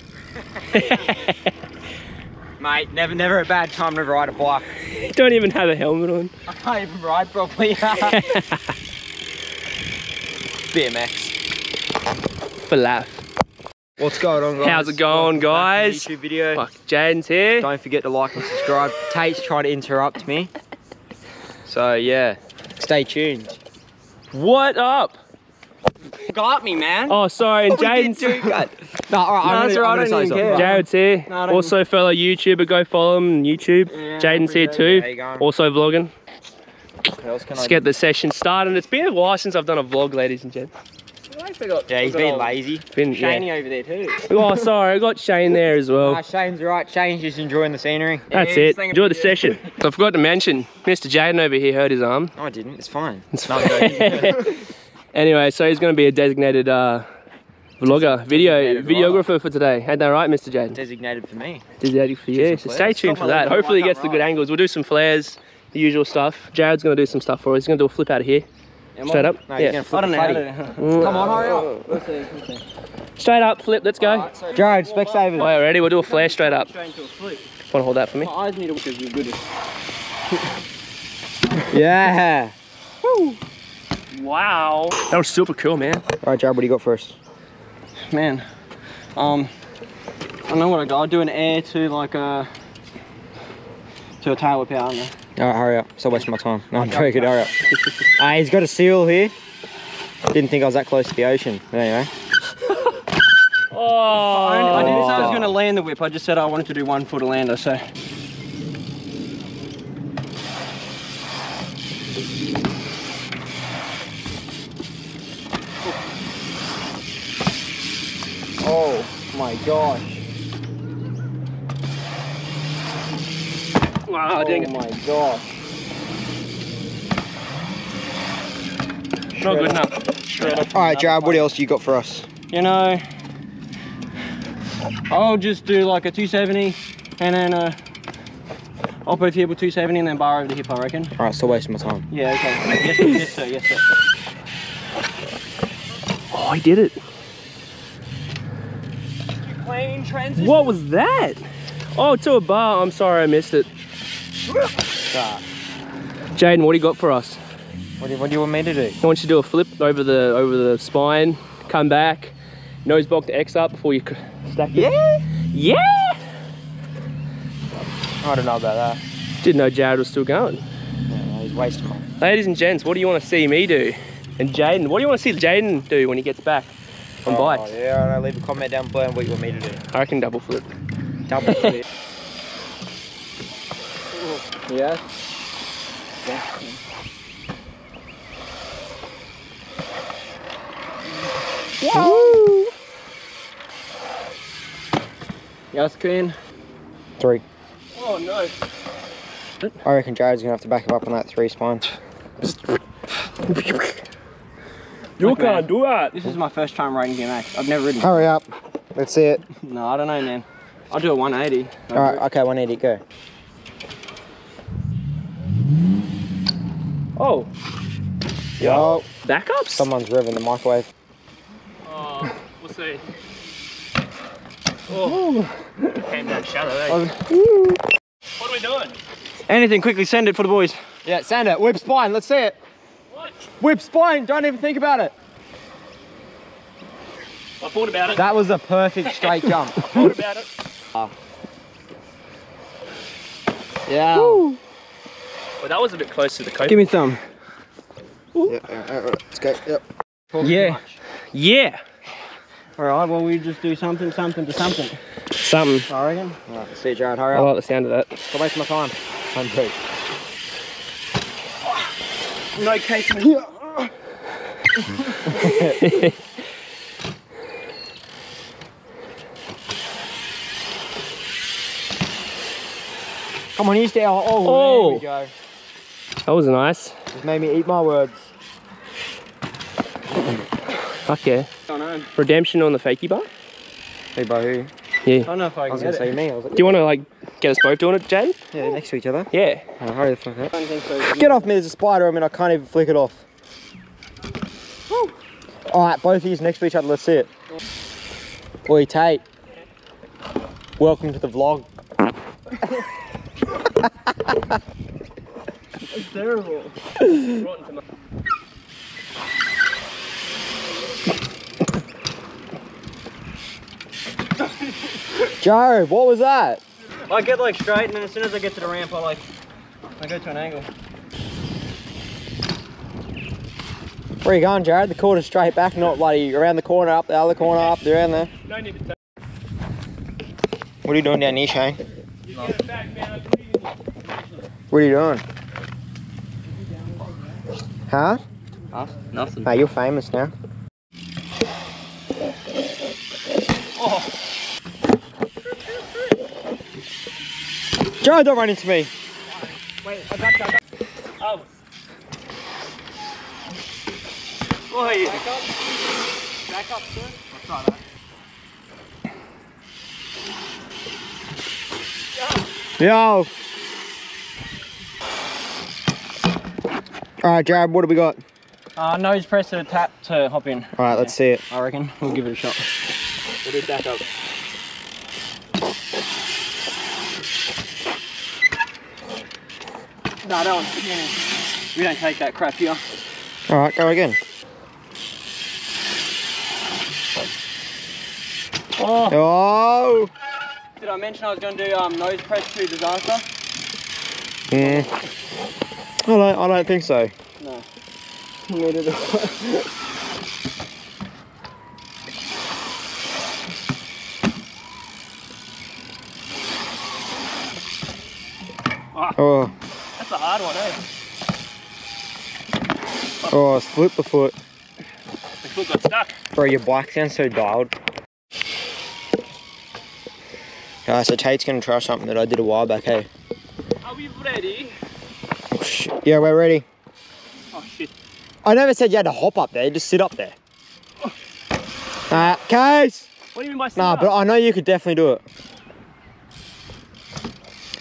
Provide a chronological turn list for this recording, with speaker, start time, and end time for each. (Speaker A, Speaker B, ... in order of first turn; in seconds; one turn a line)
Speaker A: 0.7-1.4
Speaker B: 2.6-4.7
Speaker A: 4.8-6.3
Speaker B: 6.5-8.2
Speaker A: 8.1-8.7
Speaker B: 10.7-11.3
Speaker A: 12.7-13.2
Speaker B: 14.0-16.6
Speaker A: 14.6-17.7
Speaker B: 17.6-20.5
Speaker B: 21.6-23.6
Speaker A: 24.3-25.2
Speaker B: 26.2-27.2
Speaker A: 27.1-28.5
Speaker B: 27.7-30.7
Speaker C: 29.4-31.7
Speaker A: 30.4-36.1
Speaker C: 33.9-34.9
Speaker B: 34.8-35.5
Speaker B: 37.1-37.8
Speaker A: 37.5-40.7
Speaker C: 41.3-42.5
Speaker B: 41.9-42.9
Speaker A: 42.9-43.4
Speaker C: 43.1-44.2
Speaker A: 44.2-46.2
Speaker B: 46.0-48.3
Speaker A: 48.3-52.3
Speaker C: 48.3-49.6
Speaker B: 52.4-54.6
Speaker A: 53.3-57.1
Speaker A: 57.8-60.8
Speaker B: 57.8-59.2
Speaker B: 60.7-61.6
Speaker A: 61.8-68.5
Speaker B: 62.3-62.9
Speaker C: 62.8-64.3
Speaker C: 69.0-69.4
Speaker A: 69.0-69.8
Speaker B: 69.5-71.8
Speaker C: 69.9-72.6
Speaker A: 70.8-71.5
Speaker A: 73.2-74.3
Speaker C: 74.0-77.5
Speaker B: 74.4-75.5
Speaker A: 75.3-76.7
Speaker A: 77.7-78.3
Speaker C: 78.2-79.4
Speaker B: 81.7-82.5
Speaker C: 83.0-83.4
Speaker A: 84.1-86.0
Speaker B: 86.2-87.2
Speaker C: 88.1-88.4
Speaker C: 89.2-89.5
Speaker C: 90.5-92.5
Speaker C: 94.2-95.1
Speaker B: 95.4-97.5
Speaker C: 96.7-97.6
Speaker B: 98.2-99.3
Speaker B: 100.3-102.1
Speaker A: 103.7-105.5
Speaker C: 104.1-107.8
Speaker B: 104.7-105.5
Speaker C: 118.6-120.2
Speaker A: 124.0-124.7
Speaker C: 124.3-125.5
Speaker A: 129.3-130.6
Speaker C: 129.3-131.5
Speaker B: 130.7-132.3
Speaker C: 132.5-133.0
Speaker C: 135.1-137.8
Speaker C: 139.0-141.1
Speaker B: 141.2-142.1
Speaker C: 142.1-143.8
Speaker A: 146.3-147.0
Speaker C: 149.4-150.8
Speaker A: 150.4-153.7
Speaker B: 155.1-155.4
Speaker A: 156.3-157.4
Speaker B: 158.0-159.0
Speaker A: 159.0-164.9
Speaker B: 164.7-165.2
Speaker A: 165.5-166.2
Speaker B: 168.2-169.0
Speaker A: 169.4-170.6
Speaker B: 171.1-172.1
Speaker A: 172.2-176.7
Speaker A: 177.2-177.7
Speaker B: 177.2-179.8
Speaker A: 179.9-180.7
Speaker B: 181.3-181.8
Speaker A: 181.4-181.7
Speaker C: 184.1-185.0
Speaker C: 186.2-186.8
Speaker B: 191.8-192.4
Speaker A: 191.9-192.7
Speaker C: 195.7-196.4
Speaker A: 197.9-198.5
Speaker B: 199.8-201.8
Speaker A: 203.5-203.9
Speaker A: 205.2-206.2
Speaker C: 205.2-208.1
Speaker B: 208.0-209.5
Speaker C: 209.5-212.2
Speaker B: 211.9-213.0
Speaker A: 217.2-217.5
Speaker B: 218.6-219.1
Speaker A: 218.6-219.9
Speaker B: 219.7-220.9
Speaker A: 221.8-223.0
Speaker C: 224.9-225.9
Speaker A: 224.9-225.2
Speaker A: 225.9-227.1
Speaker C: 226.9-227.4
Speaker A: 228.4-228.9
Speaker C: 229.5-230.8
Speaker B: 231.0-232.6
Speaker B: 233.6-235.1
Speaker A: 237.6-238.2
Speaker B: 238.1-240.1
Speaker A: 239.8-240.5
Speaker B: 243.9-244.5
Speaker C: 244.1-244.4
Speaker A: 245.6-246.9
Speaker C: 246.7-247.2
Speaker B: 248.4-250.9
Speaker C: 250.4-250.9
Speaker A: 251.3-251.8
Speaker C: 252.8-254.9
Speaker A: 255.4-255.9
Speaker C: 255.9-256.4
Speaker B: 256.5-257.5
Speaker A: 257.3-258.2
Speaker B: 258.3-259.8
Speaker A: 262.6-263.4
Speaker B: 265.3-265.8
Speaker A: 265.4-266.2
Speaker B: 273.5-275.3
Speaker A: 274.4-275.0
Speaker A: 276.3-276.9
Speaker B: 277.1-278.3
Speaker A: 281.1-281.5
Speaker C: 281.7-282.1
Speaker A: 282.1-283.3
Speaker B: 284.1-284.7
Speaker A: 285.0-285.3
Speaker C: 285.2-286.1
Speaker B: 285.7-286.8
Speaker A: 286.5-288.4
Speaker B: 288.5-290.5
Speaker A: 289.3-289.6
Speaker C: 290.5-291.5
Speaker B: 291.0-293.2
Speaker B: 295.7-297.3
Speaker B: 298.6-299.2
Speaker B: 300.8-301.7
Speaker C: 305.9-306.7
Speaker A: 307.2-307.8
Speaker B: 315.4-316.6
Speaker C: 317.1-319.2
Speaker C: 320.0-320.7
Speaker B: 324.2-328.3
Speaker A: 328.4-328.9
Speaker B: 330.8-331.8
Speaker A: 332.3-333.7
Speaker B: 334.7-335.2
Speaker B: 337.9-338.2
Speaker C: 338.7-339.5
Speaker B: 339.4-340.3
Speaker A: 343.8-344.1
Speaker B: 348.0-348.9
Speaker A: 349.8-350.4
Speaker A: 351.2-351.5
Speaker A: 354.7-355.2
Speaker C: 354.7-355.5
Speaker C: 356.5-357.3
Speaker B: 362.8-363.3
Speaker B: 367.2-368.2
Speaker C: 368.8-372.6
Speaker B: 370.8-371.4
Speaker A: 373.4-374.0
Speaker C: 380.2-381.2
Speaker C: 381.7-382.8
Speaker B: 383.5-384.2
Speaker A: 388.8-389.2
Speaker B: 389.1-390.1
Speaker C: 390.8-393.2
Speaker B: 394.5-394.9
Speaker C: 394.6-394.9
Speaker B: 396.0-397.1
Speaker C: 397.4-397.6
Speaker C: 398.5-399.7
Speaker B: 409.2-409.5
Speaker A: 410.0-410.8
Speaker B: 413.3-414.3
Speaker A: 415.4-416.1
Speaker B: 416.3-417.7
Speaker B: 420.9-423.1
Speaker A: 423.8-424.7
Speaker B: 425.5-426.6
Speaker A: 427.5-427.9
Speaker B: 428.4-430.4
Speaker B: 432.1-433.1
Speaker A: 433.3-434.1
Speaker B: 433.8-435.2